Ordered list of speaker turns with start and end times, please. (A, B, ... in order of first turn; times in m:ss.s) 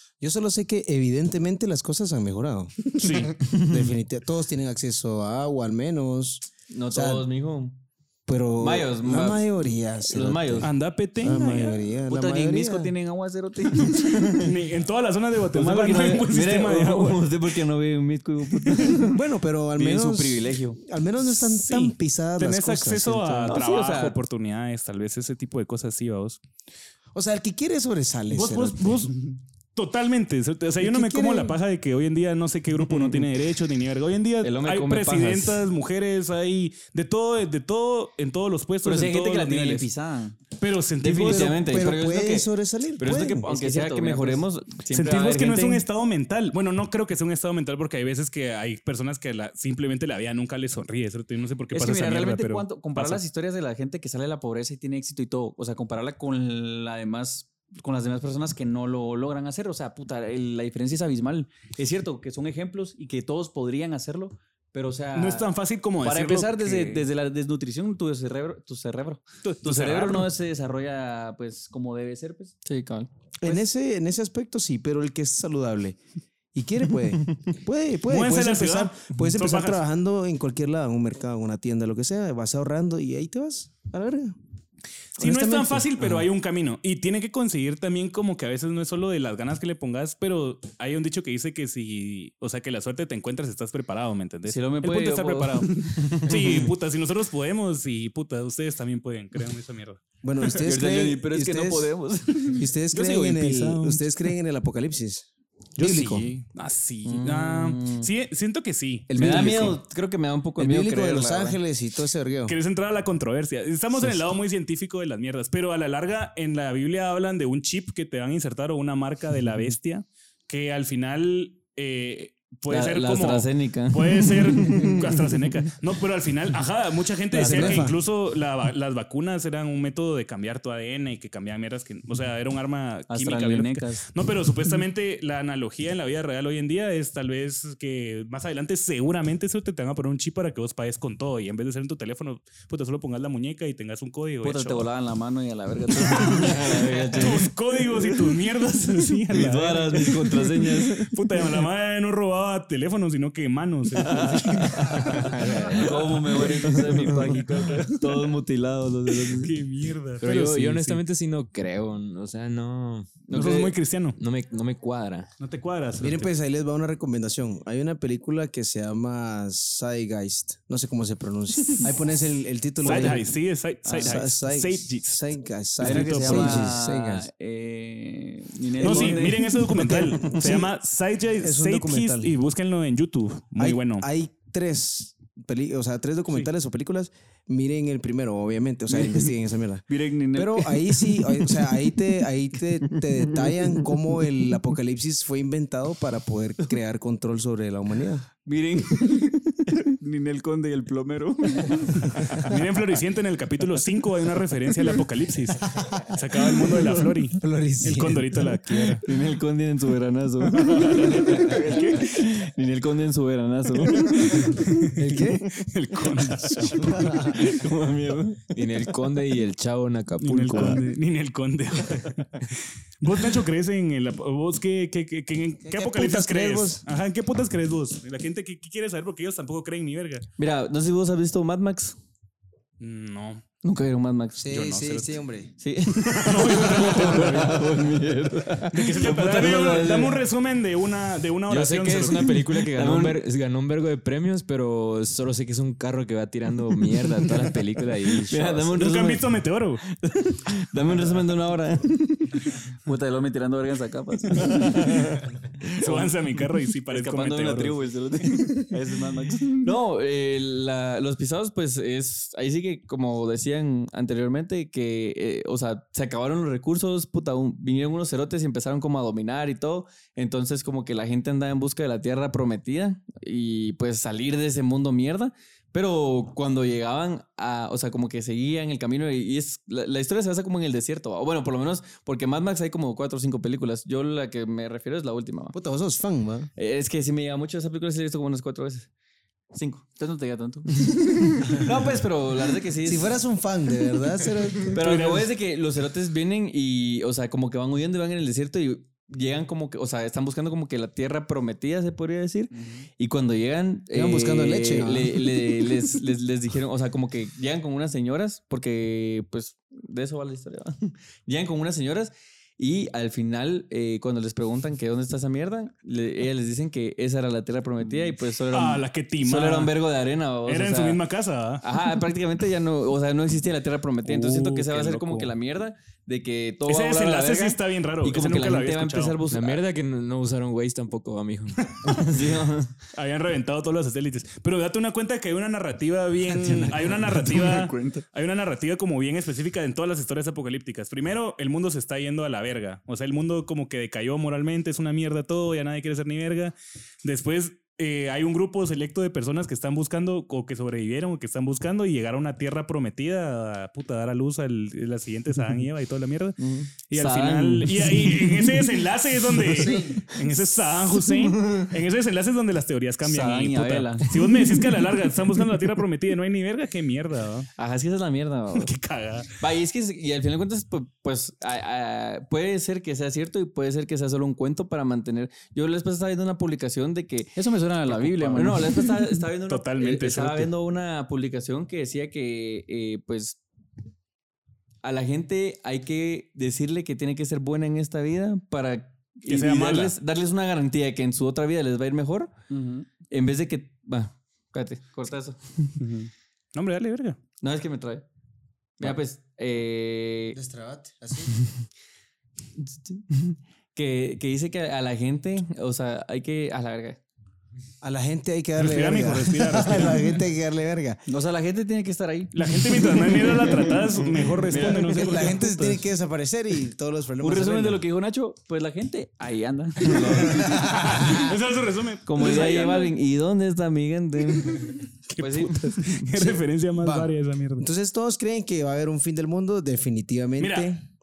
0:00.2-0:07.3 A
0:02.9-0:03.4 B
0:06.7-0:07.8 C
0:08.3-0:12.9 A
0:08.6-0:09.4 C
0:10.1-0:10.7 C
0:10.6-0:11.5 B
0:11.3-0:14.2 D
0:13.9-0:17.2 B
0:13.9-0:14.5 C
0:15.5-0:19.2 C
0:18.6-0:19.0 B
0:19.1-0:23.6 A
0:19.8-0:20.8 D
0:21.3-0:26.4 B
0:23.5-0:24.1 C
0:23.7-0:24.1 D
0:27.1-0:29.1 A
0:28.3-0:39.9 B
0:30.8-0:31.6 A
0:32.9-0:33.2 C
0:34.4-0:35.6 C
0:38.8-0:40.4 D
0:40.6-0:41.6 B
0:41.0-0:42.5 C
0:41.2-0:43.5 A
0:43.0-0:45.8 C
0:43.4-0:44.4 D
0:44.9-0:53.2 B
0:51.7-1:05.5 D
1:05.1-1:07.0 B
1:06.0-1:12.6 D
1:09.4-1:10.3 B
1:12.6-1:13.1 C
1:13.4-1:16.0 A
1:16.5-1:24.4 A
1:18.1-1:19.8 B
1:25.2-1:26.3 A
1:25.2-1:40.0 B
1:34.5-1:35.5 D
1:34.7-1:36.7 C
1:40.2-1:41.9 A
1:40.6-1:42.6 C
1:42.5-1:46.2 A
1:42.9-1:44.1 B
1:45.8-1:49.7 B
1:47.0-1:48.0 C
1:49.1-1:49.8 A
1:49.1-1:51.6 C
1:50.6-1:52.6 A
1:52.4-2:24.9 B
2:02.7-2:05.5 C
2:07.4-2:07.8 C
2:07.4-2:07.9 D
2:07.4-2:07.9 A
2:13.1-2:14.0 D
2:24.4-2:27.3 D
2:26.0-2:27.5 C
2:26.1-2:38.2 B
2:29.3-2:31.6 C
2:34.0-2:39.5 C
2:35.6-2:38.0 D
2:39.2-2:41.0 B
2:40.2-2:43.2 E
2:43.3-2:43.7 C
2:43.3-2:44.2 B
2:44.2-2:45.3 E
2:45.4-2:46.3 B
2:46.0-2:53.3 A
2:52.8-2:55.2 B
2:53.8-2:54.2 D
2:54.0-2:57.3 A
2:55.8-2:56.7 B
2:55.8-2:59.5 D
2:58.8-3:04.0 B
2:58.8-2:59.2 C
2:59.0-3:00.7 A
3:01.4-3:02.3 A
3:03.6-3:18.3 A
3:09.9-3:10.9 D
3:12.9-3:13.9 C
3:18.4-3:19.3 D
3:18.7-3:19.9 C
3:20.0-3:22.0 D
3:21.6-3:22.1 C
3:22.0-3:29.0 B
3:25.8-3:28.7 A
3:29.0-3:34.7 C
3:30.5-3:32.2 B
3:33.9-3:37.4 B
3:34.9-3:35.5 A
3:36.8-3:37.4 A
3:37.1-3:38.5 C
3:38.5-3:40.8 E
3:40.2-3:50.3 B
3:45.6-3:46.8 A
3:50.4-3:52.0 C
3:52.8-3:53.4 B
3:53.6-3:54.5 C
3:54.4-3:55.5 A
3:54.5-3:55.2 B
3:55.6-4:00.2 C
3:56.1-3:57.9 B
3:58.7-4:02.4 B
4:01.5-4:08.7 E
4:02.7-4:03.2 C
4:08.1-4:45.5 C
4:08.7-4:09.8 B
4:14.3-4:15.2 B
4:15.8-4:17.8 B
4:17.0-4:19.7 D
4:45.5-4:46.5 A
4:46.6-4:48.9 C
4:49.5-4:50.0 C
4:50.0-4:50.7 D
4:50.7-4:53.2 C
4:52.8-4:54.8 A
4:54.7-5:21.0 C
4:54.8-4:55.3 B
5:03.9-5:05.7 A
5:18.5-5:19.7 B
5:20.4-5:21.8 B
5:21.6-5:29.6 C
5:24.0-5:25.3 B
5:26.6-5:29.2 B
5:29.3-5:31.8 E
5:31.6-5:32.0 B
5:31.8-5:32.8 C
5:32.9-6:07.5 B
5:37.3-5:38.0 C
5:56.4-5:58.6 C
6:01.0-6:01.6 C
6:03.0-6:04.1 D
6:07.6-6:08.7 C
6:08.5-6:09.3 B
6:09.4-6:23.4 C
6:17.4-6:19.0 D
6:17.9-6:18.6 B
6:19.5-6:20.5 B
6:24.8-6:32.3 C
6:29.2-6:29.9 B
6:32.5-6:32.9 D
6:33.1-6:35.9 C
6:35.8-6:36.1 D
6:36.5-6:37.2 B
6:37.4-6:38.0 C
6:38.8-6:40.4 C
6:40.3-6:41.4 A
6:42.6-6:47.0 C
6:47.8-6:51.0 A
6:48.6-6:50.2 B
6:51.1-6:52.4 D
6:52.3-6:55.8 B
6:54.5-6:54.9 D
6:55.0-6:57.8 A
6:57.2-7:01.1 D
7:00.3-7:01.2 A
7:00.8-7:02.9 B
7:02.0-7:06.2 C
7:04.3-7:07.6 B
7:06.3-7:10.8 A
7:10.4-7:10.7 B